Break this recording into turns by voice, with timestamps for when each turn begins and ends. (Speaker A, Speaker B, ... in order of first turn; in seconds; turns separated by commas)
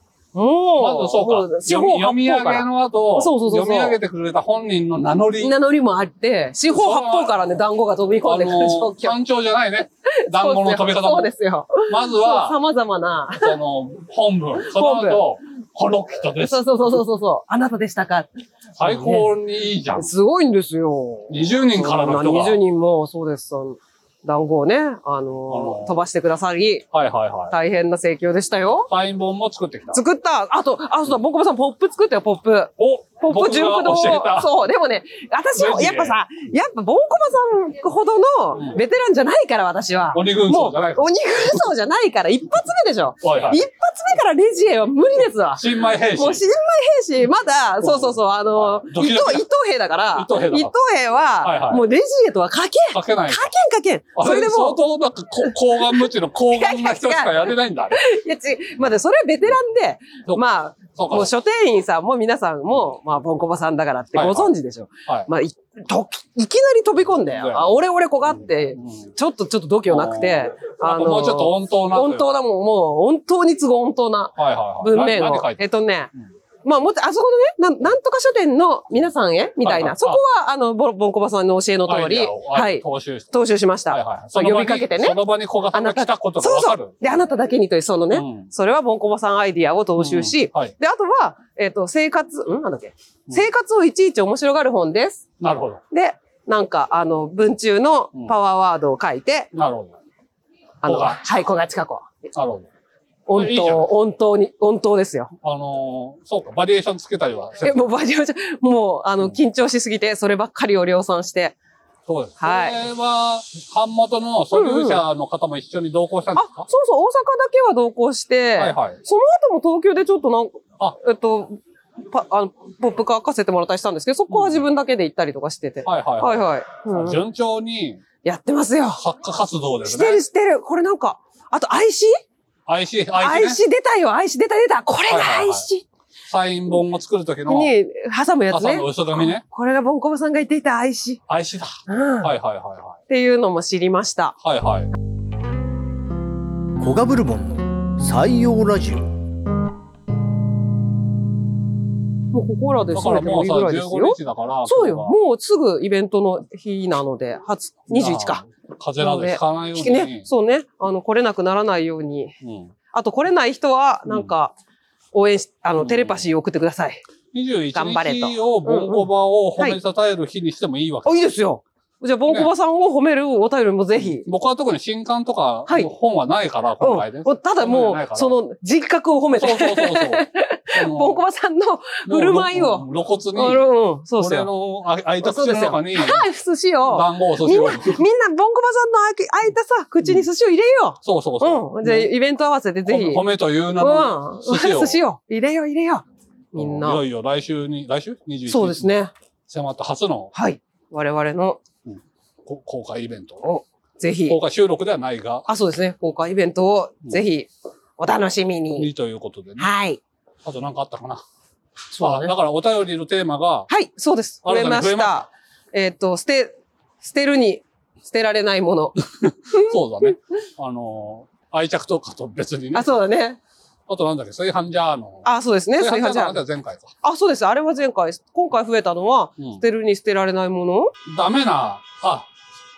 Speaker A: 0.3-4.0, Speaker B: 0.8-5.5, Speaker A: 5.4-9.2, Speaker B: 6.7-7.6, Speaker B: 8.2-11.3, Speaker A: 10.1-13.6, Speaker B: 11.9-12.6, Speaker B: 13.4-17.0, Speaker A: 14.7-15.2, Speaker A: 16.4-18.3, Speaker B: 18.8-20.1, Speaker A: 18.8-19.3, Speaker A: 20.0-26.9, Speaker B: 21.3-22.6, Speaker B: 25.5-25.9, Speaker B: 26.9-27.5, Speaker A: 27.5-28.9, Speaker B: 28.9-30.0, Speaker A: 29.9-54.8, Speaker B: 32.8-34.5, Speaker B: 35.6-36.2, Speaker B: 40.1-41.6, Speaker B: 43.2-43.6, Speaker B: 45.5-46.4, Speaker B: 47.8-49.5, Speaker B: 50.1-50.7, Speaker B: 51.4-51.8, Speaker B: 52.9-53.5, Speaker B: 54.1-58.0, Speaker A: 55.4-76.1, Speaker B: 61.0-61.3, Speaker B: 64.1-64.5, Speaker B: 67.2-69.1, Speaker B: 69.9-72.3, Speaker B: 74.4-75.6, Speaker A: 76.7-95.2, Speaker B: 79.6-80.2, Speaker B: 81.9-83.3, Speaker B: 83.9-87.2, Speaker B: 88.1-88.5, Speaker B: 90.0-90.7, Speaker B: 95.4-95.8, Speaker A: 95.9-99.5, Speaker B: 99.5-100.0, Speaker A: 100.8-102.3, Speaker B: 100.8-101.5, Speaker B: 102.3-102.7, Speaker A: 103.3-105.3, Speaker B: 103.3-103.9, Speaker B: 105.4-107.9, Speaker A: 107.6-111.6, Speaker B: 112.1-116.7, Speaker A: 112.4-112.8, Speaker A: 114.5-115.0, Speaker A: 116.3-121.6, Speaker B: 118.6-119.0, Speaker A: 122.1-127.2, Speaker B: 124.3-124.6, Speaker B: 125.8-128.0, Speaker A: 128.2-129.0, Speaker B: 129.0-130.2, Speaker A: 129.9-132.2, Speaker B: 132.7-133.6, Speaker A: 133.2-135.9, Speaker B: 135.1-135.7, Speaker B: 136.3-137.7, Speaker A: 137.5-141.2, Speaker B: 138.5-139.4, Speaker B: 141.3-143.0, Speaker A: 141.9-142.3, Speaker A: 143.1-144.4, Speaker B: 144.4-144.9, Speaker C: 146.8-149.1, Speaker A: 152.3-158.4, Speaker B: 152.9-155.2, Speaker B: 157.9-160.3, Speaker A: 159.0-162.3, Speaker B: 162.4-162.7, Speaker A: 162.9-164.6, Speaker A: 165.1-167.0, Speaker B: 165.8-166.3, Speaker B: 167.3-171.2, Speaker A: 167.7-169.8, Speaker A: 171.1-174.3, Speaker B: 174.0-178.3, Speaker A: 176.8-184.5, Speaker B: 179.3-181.2, Speaker B: 182.1-183.7, Speaker B: 184.2-186.3, Speaker A: 185.2-193.2, Speaker B: 186.9-188.0, Speaker B: 191.0-192.1, Speaker B: 192.8-195.0, Speaker A: 193.8-197.0, Speaker B: 196.6-198.9, Speaker A: 198.5-199.1, Speaker B: 199.5-200.3, Speaker A: 200.3-201.6, Speaker B: 201.9-203.4, Speaker A: 203.4-204.4, Speaker B: 204.3-205.5, Speaker A: 205.5-208.9, Speaker B: 208.8-209.7, Speaker A: 209.6-210.0, Speaker B: 210.4-211.2, Speaker A: 211.9-212.3, Speaker B: 212.0-213.7, Speaker A: 213.7-219.0, Speaker B: 214.4-215.2, Speaker B: 219.1-222.9, Speaker A: 219.5-220.2, Speaker A: 222.7-223.4, Speaker B: 223.9-225.3, Speaker A: 225.2-226.4, Speaker B: 225.8-226.9, Speaker A: 227.0-230.9, Speaker B: 231.1-232.3